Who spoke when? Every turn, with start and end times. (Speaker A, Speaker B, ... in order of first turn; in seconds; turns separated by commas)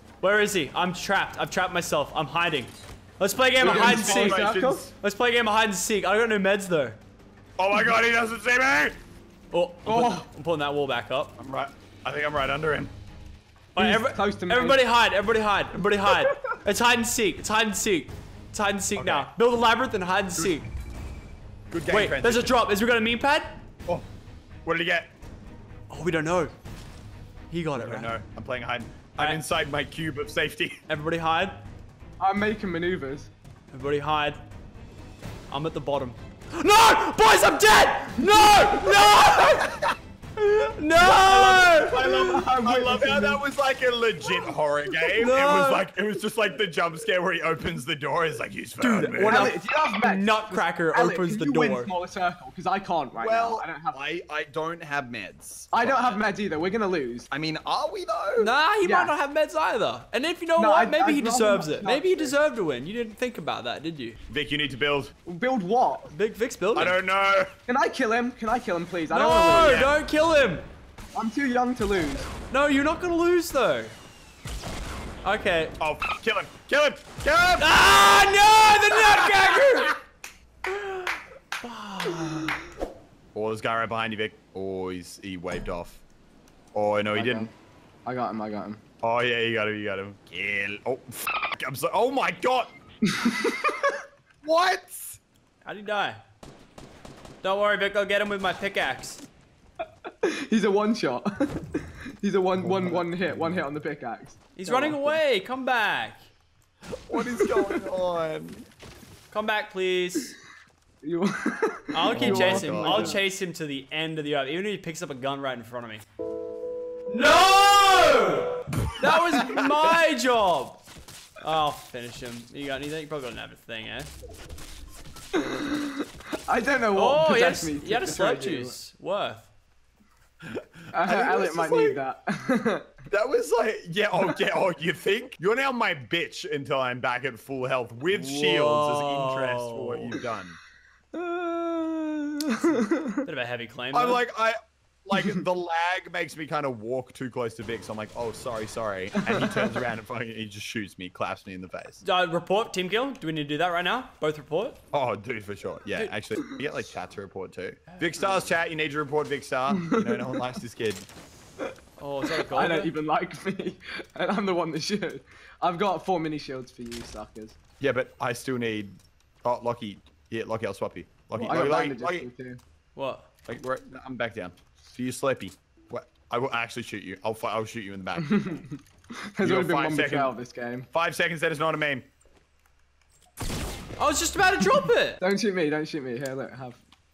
Speaker A: 0.2-4.5, Speaker B: 3.6-4.9, Speaker C: 3.6-4.9, Speaker A: 5.0-7.0, Speaker C: 7.6-9.0, Speaker A: 9.5-11.4, Speaker B: 9.9-10.2, Speaker C: 11.4-12.9, Speaker A: 13.8-20.7, Speaker B: 13.8-14.8, Speaker C: 18.9-19.3, Speaker C: 21.7-22.6, Speaker A: 21.9-23.6, Speaker C: 24.6-25.1, Speaker A: 25.9-26.5, Speaker A: 27.5-28.1, Speaker C: 27.8-30.8, Speaker A: 30.9-31.6, Speaker B: 32.2-33.3, Speaker A: 33.7-34.4, Speaker A: 35.5-39.8, Speaker C: 39.7-39.9, Speaker A: 40.4-42.3, Speaker C: 41.0-49.5, Speaker B: 41.3-43.4, Speaker A: 45.1-45.9, Speaker A: 48.8-51.9, Speaker B: 49.2-54.0, Speaker C: 53.2-56.2, Speaker B: 55.7-57.3, Speaker C: 57.3-58.5, Speaker A: 58.4-64.2, Speaker B: 58.8-59.1, Speaker B: 60.6-62.4, Speaker C: 64.3-65.1, Speaker B: 65.3-66.1, Speaker A: 66.1-66.9, Speaker C: 66.8-67.5, Speaker B: 67.7-69.9, Speaker A: 69.1-70.7, Speaker B: 71.1-72.3, Speaker A: 72.5-73.9, Speaker A: 75.2-75.8, Speaker C: 75.8-77.7, Speaker A: 77.6-80.0, Speaker A: 80.7-82.6, Speaker C: 83.3-86.0, Speaker C: 86.7-87.5, Speaker B: 87.1-87.5, Speaker B: 88.0-88.8, Speaker C: 89.0-92.7, Speaker B: 93.0-94.0, Speaker C: 94.4-95.2, Speaker A: 95.6-96.2, Speaker A: 97.4-99.2, Speaker B: 100.2-105.2, Speaker C: 102.5-103.7, Speaker A: 104.5-106.2, Speaker C: 107.1-108.7, Speaker B: 107.1-107.9, Speaker A: 109.3-110.4, Speaker B: 111.0-113.2, Speaker A: 111.9-116.0, Speaker C: 112.1-113.2, Speaker A: 117.1-120.8, Speaker B: 119.1-119.6, Speaker A: 121.4-124.1, Speaker B: 125.3-128.7, Speaker A: 127.0-129.5, Speaker C: 130.4-132.0, Speaker B: 130.9-132.9, Speaker C: 133.1-140.6, Speaker A: 138.1-140.2, Speaker B: 141.1-143.2, Speaker A: 143.2-144.2, Speaker C: 143.9-152.0, Speaker B: 149.2-149.8, Speaker A: 152.0-154.8, Speaker C: 154.9-161.1, Speaker B: 159.7-160.4, Speaker A: 162.0-162.9, Speaker B: 162.3-167.6, Speaker C: 167.8-172.3, Speaker B: 171.3-172.6, Speaker A: 173.0-173.3, Speaker C: 173.5-178.6, Speaker B: 178.2-180.9, Speaker C: 179.4-180.3, Speaker C: 180.9-182.1, Speaker A: 184.0-185.2, Speaker B: 185.2-186.8